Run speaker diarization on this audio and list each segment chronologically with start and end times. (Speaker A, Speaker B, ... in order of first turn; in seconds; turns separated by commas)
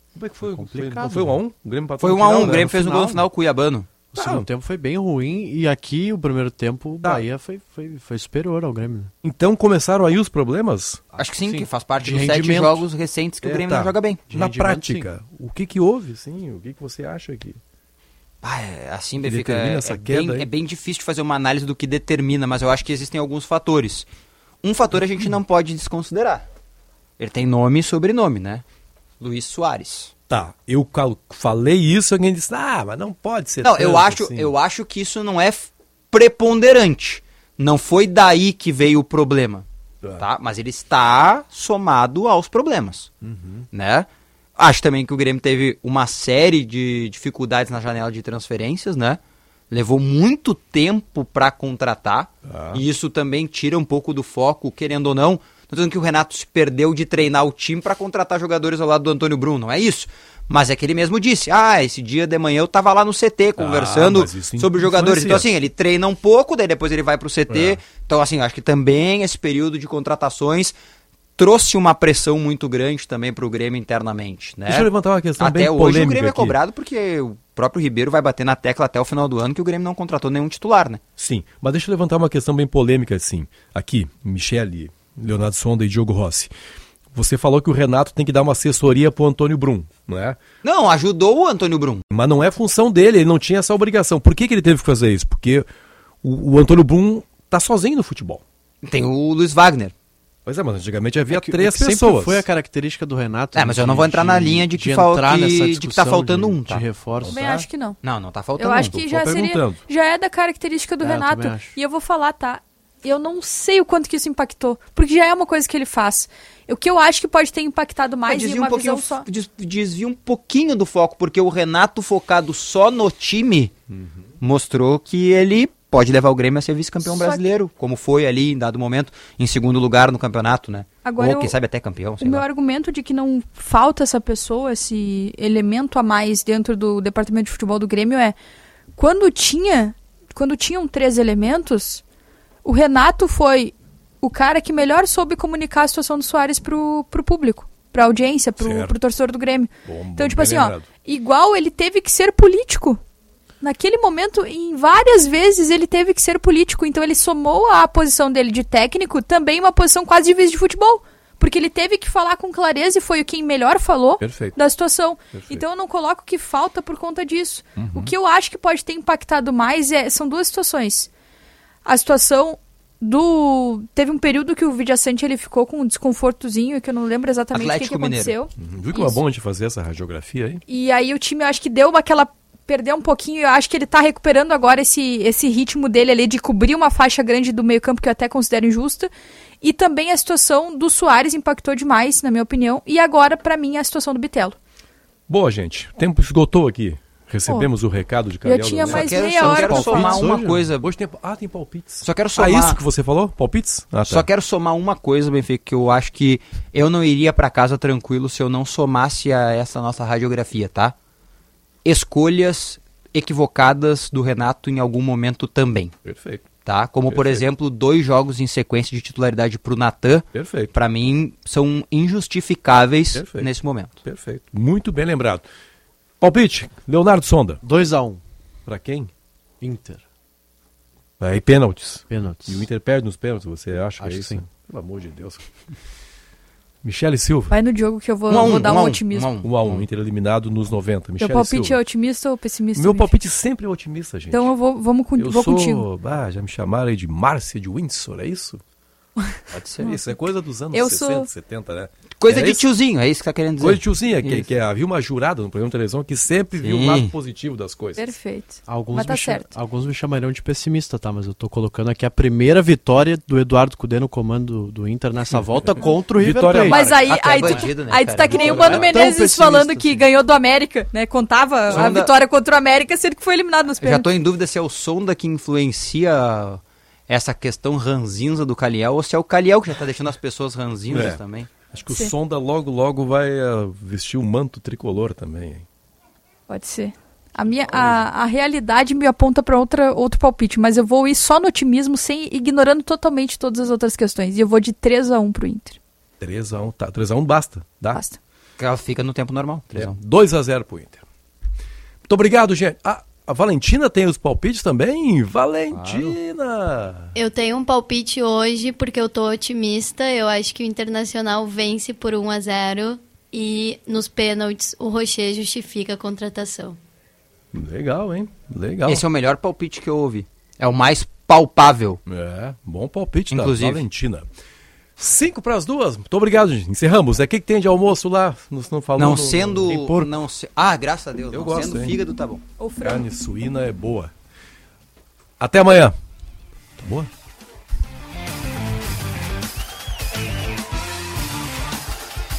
Speaker A: 0.1-2.8, Speaker B: 0.4-1.4, Speaker C: 2.0-3.9, Speaker B: 2.3-3.2, Speaker B: 4.1-9.1, Speaker A: 4.2-4.5, Speaker A: 9.2-11.0, Speaker B: 11.1-12.8, Speaker C: 11.2-14.2, Speaker A: 13.4-17.6, Speaker B: 14.3-15.1, Speaker C: 18.4-24.1, Speaker A: 19.2-20.5, Speaker C: 24.6-26.4, Speaker C: 27.2-28.6, Speaker C: 29.2-30.1, Speaker A: 30.3-34.5, Speaker C: 33.6-39.6, Speaker C: 40.2-43.1, Speaker A: 43.2-43.6, Speaker C: 43.7-49.2, Speaker C: 49.7-70.7, Speaker A: 52.5-52.8, Speaker A: 63.6-65.5, Speaker A: 67.5-67.8, Speaker C: 71.4-81.0, Speaker A: 74.7-76.6, Speaker A: 81.2-86.5, Speaker A: 87.1-90.4, Speaker C: 90.6-92.0, Speaker A: 92.1-95.7, Speaker A: 96.2-98.4, Speaker C: 98.8-99.9, Speaker A: 100.5-102.4, Speaker B: 101.3-107.6, Speaker C: 103.5-106.9, Speaker D: 107.2-108.0, Speaker C: 108.0-109.0, Speaker D: 108.6-119.2, Speaker A: 108.9-109.8, Speaker B: 111.0-111.7, Speaker C: 118.3-123.7, Speaker C: 124.4-132.4, Speaker D: 127.0-127.4, Speaker D: 131.0-131.5, Speaker D: 132.2-138.3, Speaker D: 138.9-142.0, Speaker D: 142.6-153.0, Speaker A: 148.6-148.9, Speaker A: 149.8-150.9, Speaker D: 153.6-171.1, Speaker A: 164.2-164.6, Speaker A: 165.3-165.6, Speaker A: 167.8-168.1, Speaker D: 171.8-179.2, Speaker C: 177.5-178.3, Speaker A: 178.6-180.6, Speaker D: 180.7-194.6, Speaker A: 195.3-200.3, Speaker D: 198.4-200.2, Speaker C: 198.8-200.9, Speaker B: 199.5-200.7, Speaker A: 200.8-204.3, Speaker C: 202.0-202.8, Speaker C: 204.0-210.9, Speaker C: 211.8-215.9, Speaker A: 216.0-216.4, Speaker C: 216.6-224.0, Speaker A: 217.1-217.4, Speaker A: 220.3-220.7, Speaker A: 223.1-223.5, Speaker A: 224.0-225.4, Speaker A: 226.2-227.6, Speaker B: 227.6-228.2, Speaker A: 228.7-229.1, Speaker B: 229.6-230.0, Speaker A: 231.2-235.4, Speaker B: 232.1-232.7, Speaker B: 234.0-234.4, Speaker A: 236.8-237.5, Speaker D: 237.5-239.3, Speaker C: 238.3-239.8, Speaker A: 238.4-238.7, Speaker A: 239.4-241.8, Speaker D: 241.2-243.2, Speaker A: 242.7-244.5, Speaker D: 244.3-245.8, Speaker A: 245.2-248.6, Speaker D: 249.2-250.0, Speaker C: 249.5-249.9, Speaker A: 249.8-252.7, Speaker D: 250.7-251.3, Speaker C: 252.2-254.5, Speaker A: 253.6-258.1, Speaker C: 256.6-257.1, Speaker D: 257.9-259.5, Speaker B: 258.7-266.8, Speaker A: 265.4-267.6, Speaker D: 266.7-274.1, Speaker C: 266.7-269.0, Speaker B: 268.3-270.0, Speaker C: 271.7-272.1, Speaker C: 273.8-281.5, Speaker A: 280.9-285.6, Speaker D: 286.5-295.8, Speaker A: 287.7-288.0, Speaker A: 296.2-298.0, Speaker D: 297.9-298.2, Speaker C: 298.6-299.9, Speaker A: 299.7-301.0, Speaker A: 302.1-307.1, Speaker E: 307.1-316.8, Speaker A: 317.5-319.0, Speaker C: 318.8-322.0, Speaker A: 322.1-324.3, Speaker C: 323.3-323.8, Speaker A: 325.0-330.1, Speaker C: 329.0-332.4, Speaker A: 331.3-331.9, Speaker D: 332.6-333.1, Speaker A: 332.8-334.1, Speaker A: 335.4-335.9, Speaker A: 336.8-337.1